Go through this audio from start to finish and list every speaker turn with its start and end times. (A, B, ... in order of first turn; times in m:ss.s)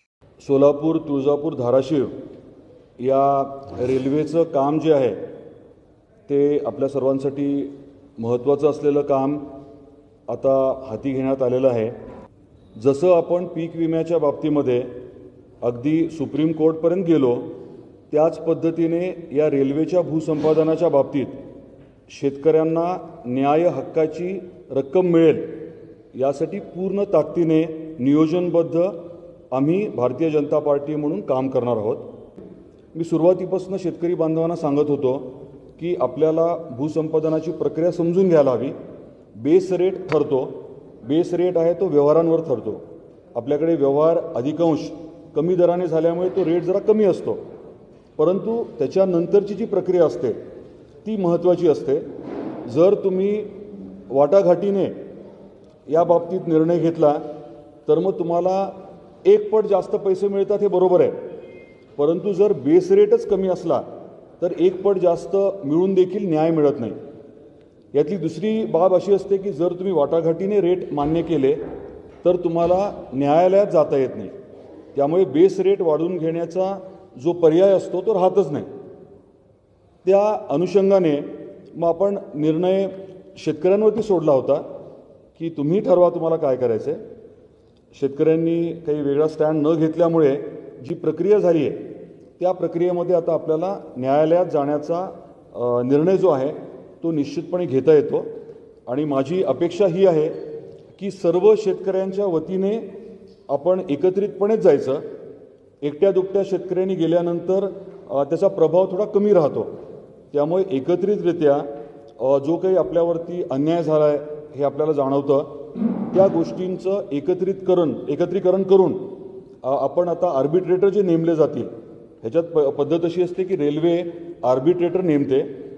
0:00.4-0:02.1 A
0:03.0-0:05.2 A
0:06.3-0:09.4 A
0:10.3-0:12.0 A
0:12.8-0:15.0 A
0:15.6-0:17.6 A
0:18.1-0:21.4 A
0:22.1-0:29.0 A
0:29.5-0:32.1 A
0:32.9-0:38.8 A
0:39.4-0:42.8 A
0:43.3-0:47.4 A
0:48.2-0:50.4 A
0:51.0-0:52.0 A
0:52.6-0:53.5 A
0:54.1-0:55.0 A
0:55.9-0:57.2 A
0:57.9-1:01.2 A
1:02.0-1:03.8 A
1:04.4-1:07.0 A
1:07.9-1:11.6 A
1:12.2-1:14.3 A
1:14.9-1:18.7 A
1:20.0-1:24.6 A
1:25.4-1:27.0 A
1:27.9-1:38.3 A
1:38.9-1:40.4 A
1:41.0-1:42.9 A
1:43.5-1:45.0 A
1:45.8-1:49.7 A
1:50.3-2:01.7 A
2:02.2-2:05.5 A